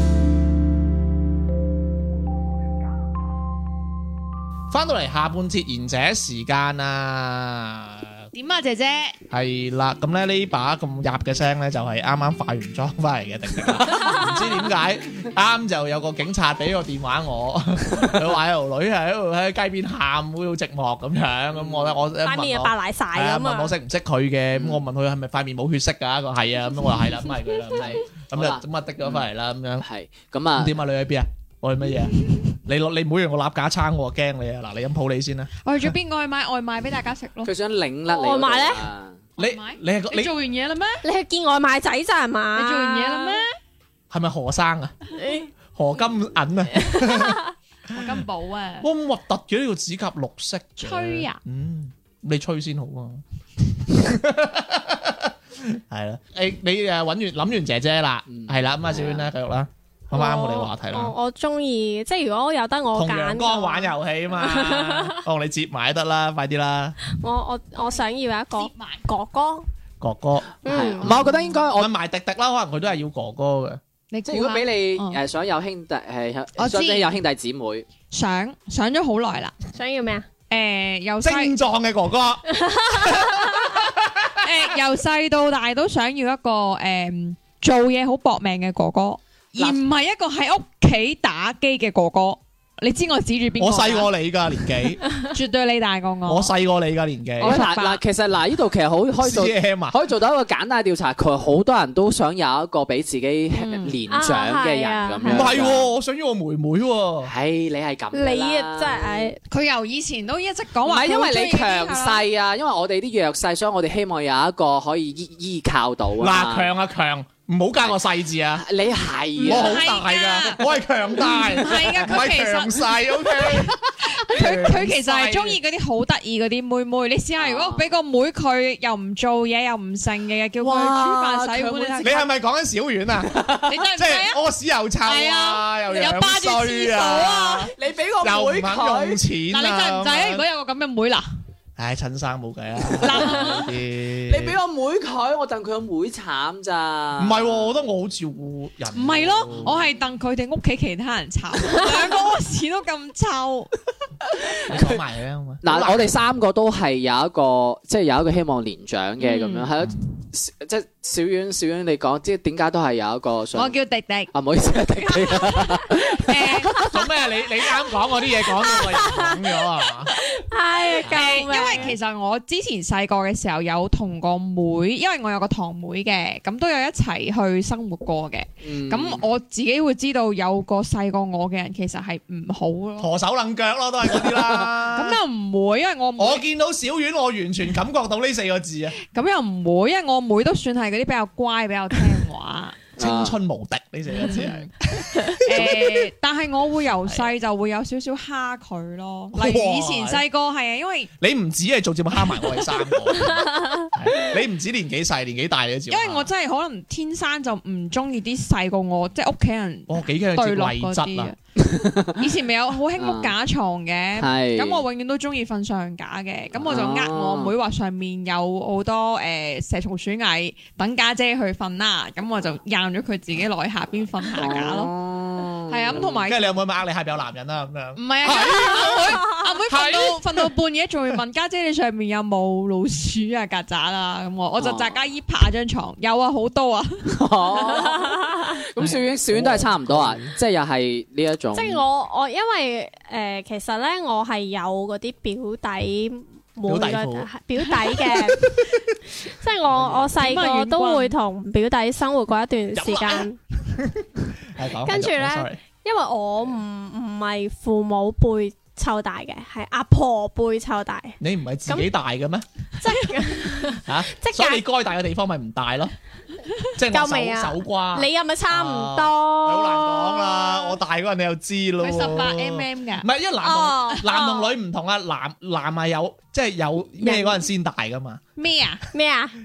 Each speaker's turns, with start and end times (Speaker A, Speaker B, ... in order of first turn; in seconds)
Speaker A: 4.7-8.3, 9.3-29.9, 30.6-35.5, 39.4-40.3, 44.1-45.0, 45.7-47.4, 48.0-48.2, 48.8-61.1, 62.9-67.0, 70.0-70.5, 71.0-73.8, 81.2-84.3, 93.6-95.0, 96.3-97.6, 99.2-100.0, 105.3-107.3, 116.2-118.7, 119.4-123.8, 124.3-125.0, 132.0-140.4, 141.8-144.6, 147.2-149.8, 154.7-156.1, 166.9-170.1, 183.0-185.2, 186.2-189.0, 193.0-196.1, 199.3-200.2, 201.2-206.3, 209.9-211.3, 226.2-230.5, 238.8-240.3, 246.7-247.3, 248.1-248.7, 249.7-250.1, 252.7-255.6, 261.2-262.5, 263.9-265.9, 266.8-278.2
Speaker B: 8.3-9.2, 35.6-37.5, 39.4-41.0, 42.5-43.6, 47.9-48.9, 50.8-51.4, 68.6-69.0, 74.1-75.2, 76.6-77.2, 78.1-79.5, 80.5-81.5, 84.4-94.1, 95.2-96.5, 97.4-98.0, 103.6-104.0, 109.5-112.2, 119.4-120.6, 121.2-132.3, 133.7-134.4, 135.0-137.7, 139.5-141.3, 142.9-143.7, 148.9-153.7, 159.2-159.7, 163.6-164.3, 165.1-166.9, 171.0-183.1, 184.9-186.4, 189.0-192.8, 194.1-201.1, 205.9-211.4, 212.2-224.9, 225.7-226.6, 228.0-237.2, 250.2-251.2, 271.8-273.1, 278.4-278.8
Speaker C: 21.5-22.0, 24.5-24.8, 27.8-29.2, 29.8-30.8, 37.4-39.2, 58.3-59.3, 70.6-71.9, 74.3-77.9, 97.4-105.9, 107.2-109.3, 110.8-116.7, 118.5-119.9, 124.6-125.6, 127.4-127.9, 130.6-132.2, 133.3-133.7, 137.8-139.2, 143.1-143.5, 144.3-147.8, 154.4-155.0, 155.6-163.8, 164.3-166.9, 178.6-179.2, 184.2-184.7, 193.0-193.4, 211.6-212.3, 213.0-213.3, 214.2-214.8, 216.6-217.5, 224.3-226.2, 234.6-235.0, 237.1-241.8
Speaker D: 22.2-23.7, 38.1-38.8, 41.0-43.4, 45.1-45.5, 46.7-47.5, 60.1-65.2, 67.2-69.7, 70.7-71.1, 79.8-80.3, 82.5-83.7, 104.1-105.6, 108.1-109.4, 168.7-169.4, 170.1-171.9, 228.8-229.5, 238.0-238.4, 241.6-248.5, 249.2-253.4, 254.8-261.9, 262.8-264.6, 266.9-270.8, 273.4-274.4, 278.9-279.4